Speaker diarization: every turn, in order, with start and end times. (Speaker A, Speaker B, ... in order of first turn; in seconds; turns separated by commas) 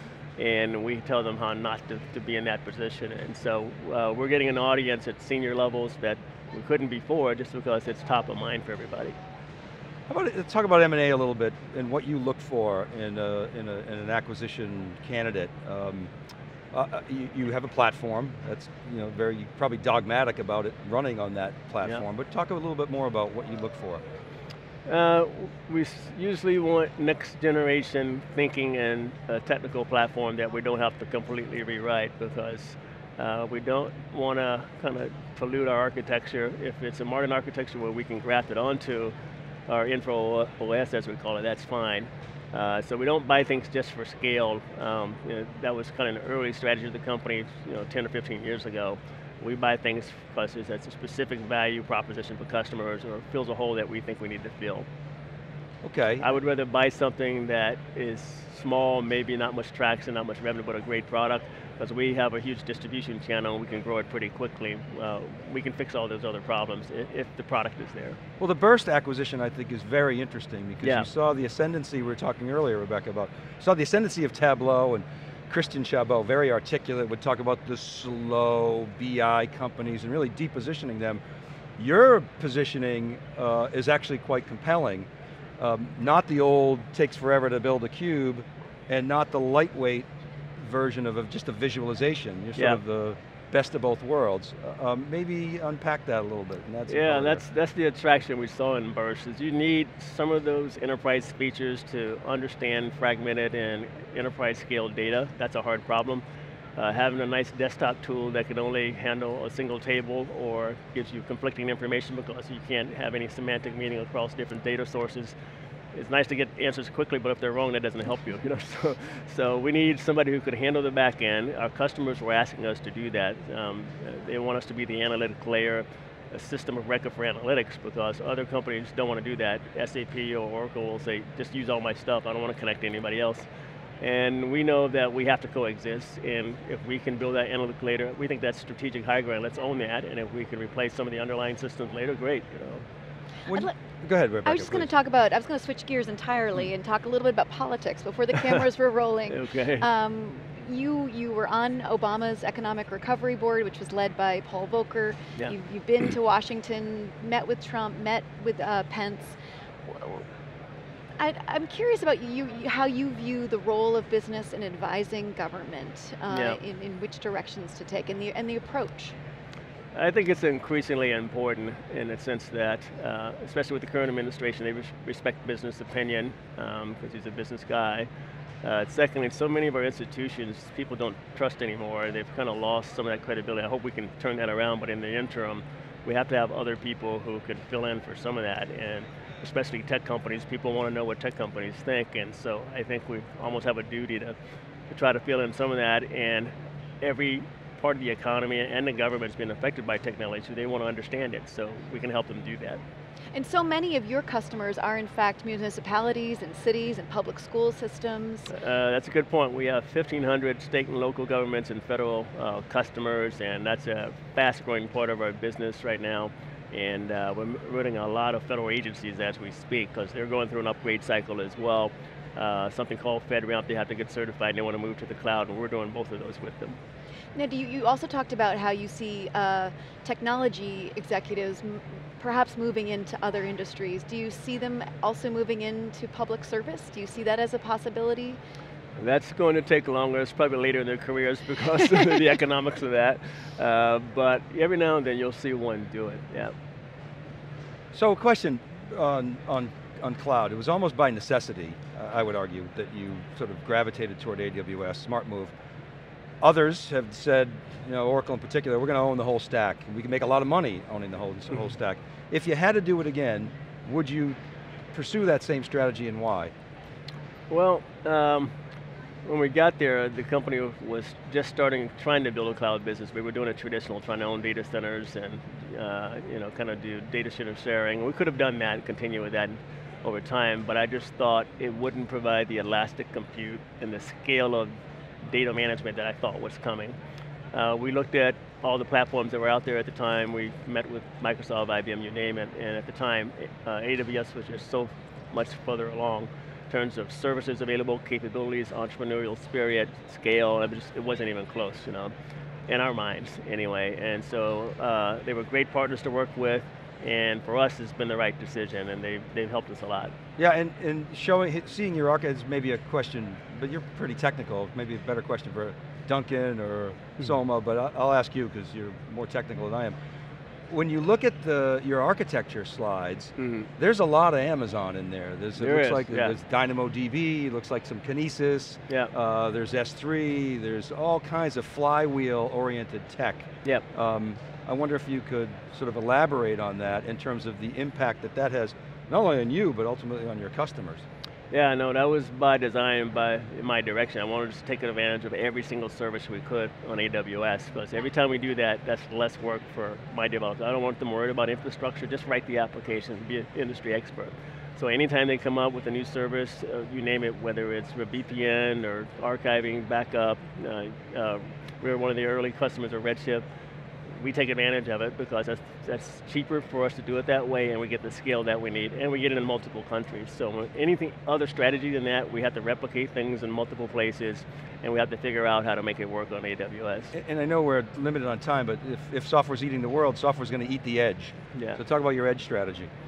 Speaker A: 0.4-9.2, Speaker B: 10.1-16.1, Speaker B: 16.7-24.0, Speaker A: 24.9-39.1, Speaker A: 39.7-54.9, Speaker B: 55.8-56.3, Speaker A: 56.2-68.2, Speaker B: 68.4-81.2, Speaker A: 70.8-71.1, Speaker B: 81.8-85.1, Speaker B: 85.6-90.1, Speaker B: 90.6-97.4, Speaker A: 96.9-106.2, Speaker A: 106.8-115.3, Speaker A: 115.9-133.5, Speaker A: 134.0-142.9, Speaker B: 143.5-144.9, Speaker C: 144.4-160.2, Speaker A: 149.3-149.9, Speaker C: 161.2-169.2, Speaker A: 166.3-166.6, Speaker A: 169.9-178.1, Speaker A: 178.6-194.3, Speaker A: 194.9-202.8, Speaker C: 203.3-208.5, Speaker A: 208.5-226.8, Speaker C: 227.3-238.4, Speaker A: 239.0-246.5, Speaker B: 247.9-255.5, Speaker B: 256.4-264.4, Speaker B: 264.9-266.5, Speaker A: 267.5-268.5, Speaker A: 269.2-287.0, Speaker A: 287.5-302.1, Speaker A: 302.7-310.1, Speaker B: 310.4-320.0, Speaker B: 320.7-341.0, Speaker A: 323.4-323.7, Speaker A: 325.6-326.4, Speaker A: 341.5-363.4, Speaker A: 364.2-377.1, Speaker B: 377.1-382.9, Speaker A: 381.5-381.8